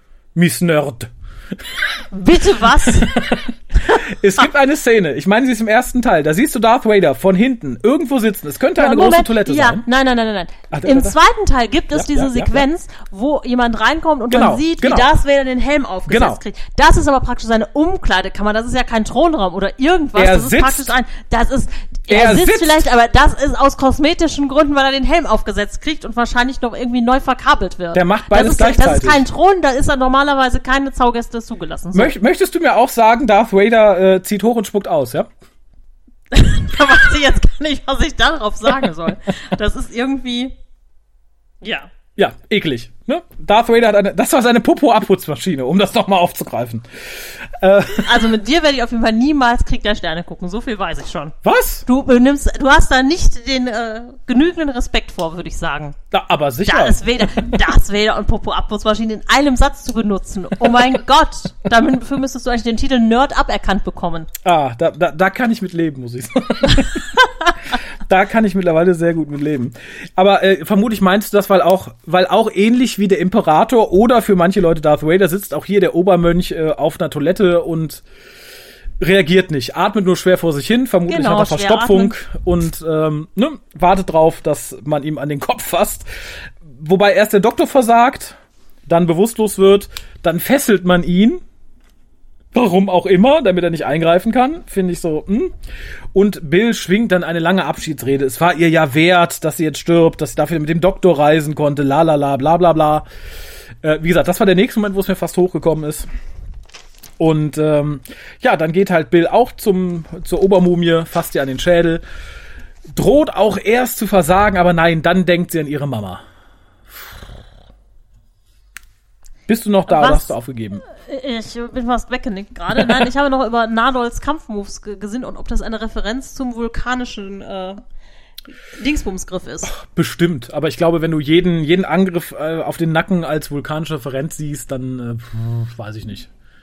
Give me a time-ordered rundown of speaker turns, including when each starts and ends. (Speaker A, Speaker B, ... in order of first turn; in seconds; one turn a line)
Speaker A: 0.3-1.9
Speaker B: 2.1-3.2
Speaker A: 2.9-9.8
Speaker B: 8.8-32.1
Speaker A: 10.7-11.2
Speaker A: 11.9-12.7
Speaker A: 14.3-15.1
Speaker A: 16.1-16.4
Speaker A: 20.2-20.9
Speaker A: 22.1-22.8
Speaker A: 27.9-29.2
Speaker A: 31.9-35.3
Speaker B: 36.3-40.6
Speaker B: 41.6-41.9
Speaker A: 42.2-48.3
Speaker B: 48.0-56.0
Speaker A: 51.4-51.9
Speaker A: 56.1-57.6
Speaker B: 56.7-64.3
Speaker A: 64.4-67.0
Speaker A: 68.1-78.0
Speaker A: 79.0-86.1
Speaker B: 81.1-82.2
Speaker A: 86.7-91.4
Speaker A: 92.5-95.6
Speaker A: 96.1-103.1
Speaker A: 103.8-106.1
Speaker A: 107.2-112.0
Speaker A: 112.9-116.2
Speaker A: 116.9-117.2
Speaker A: 119.5-120.8
Speaker B: 119.9-127.8
Speaker B: 128.7-129.7
Speaker A: 129.7-136.3